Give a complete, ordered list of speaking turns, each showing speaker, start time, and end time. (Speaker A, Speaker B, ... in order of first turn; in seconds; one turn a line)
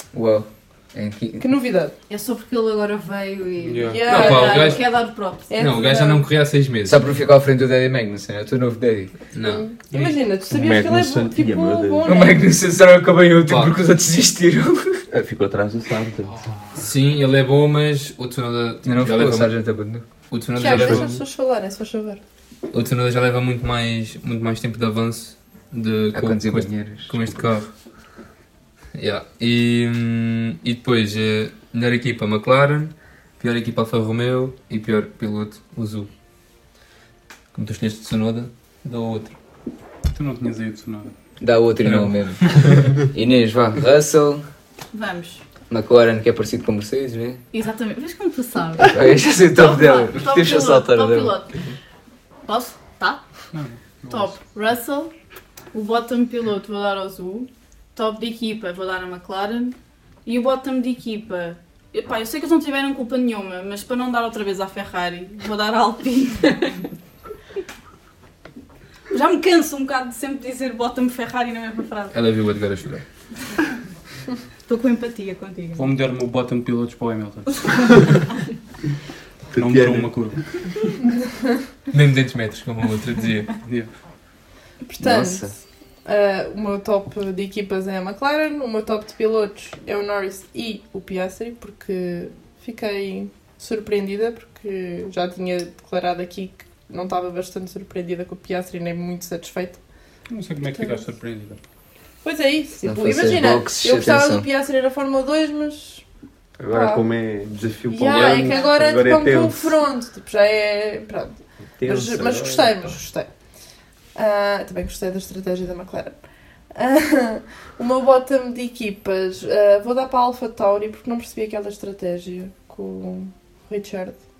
Speaker A: 0.1-1.4
Speaker B: 1.4-1.9
Speaker C: 2.1-5.6
Speaker D: 3.6-4.0
Speaker B: 3.8-4.9
Speaker E: 4.0-7.1
Speaker B: 5.5-6.2
Speaker A: 6.8-9.2
Speaker E: 9.3-9.7
Speaker B: 9.4-12.5
Speaker D: 9.9-10.2
Speaker F: 10.5-12.1
Speaker A: 12.0-15.0
Speaker E: 13.4-13.8
Speaker F: 15.1-16.4
Speaker D: 16.2-16.8
Speaker E: 16.7-19.6
Speaker A: 18.8-20.1
Speaker E: 20.3-21.2
Speaker B: 20.6-22.2
Speaker A: 20.6-21.0
Speaker E: 22.7-27.7
Speaker A: 26.1-27.2
Speaker E: 28.9-36.1
Speaker E: 37.5-39.4
Speaker D: 40.1-41.1
Speaker A: 41.4-44.5
Speaker E: 41.8-42.1
Speaker C: 44.9-45.4
Speaker A: 45.7-47.4
Speaker C: 47.5-48.9
Speaker A: 48.9-51.4
Speaker C: 49.5-51.5
Speaker C: 52.4-53.2
Speaker D: 53.5-54.4
Speaker C: 54.1-55.1
Speaker C: 55.7-66.7
Speaker C: 69.1-72.1
Speaker E: 72.1-73.0
Speaker C: 74.7-75.9
Speaker D: 75.8-78.1
Speaker F: 79.5-80.2
Speaker D: 79.5-80.4
Speaker E: 81.9-83.5
Speaker D: 83.6-83.9
Speaker B: 84.8-99.8
Speaker A: 85.0-85.5
Speaker D: 100.3-101.6
Speaker B: 102.2-106.0
Speaker A: 102.8-104.5
Speaker F: 106.6-109.7
Speaker B: 106.7-107.0
Speaker B: 107.9-113.3
Speaker E: 108.1-108.5
Speaker F: 111.8-112.9
Speaker B: 114.1-116.2
Speaker B: 116.7-124.2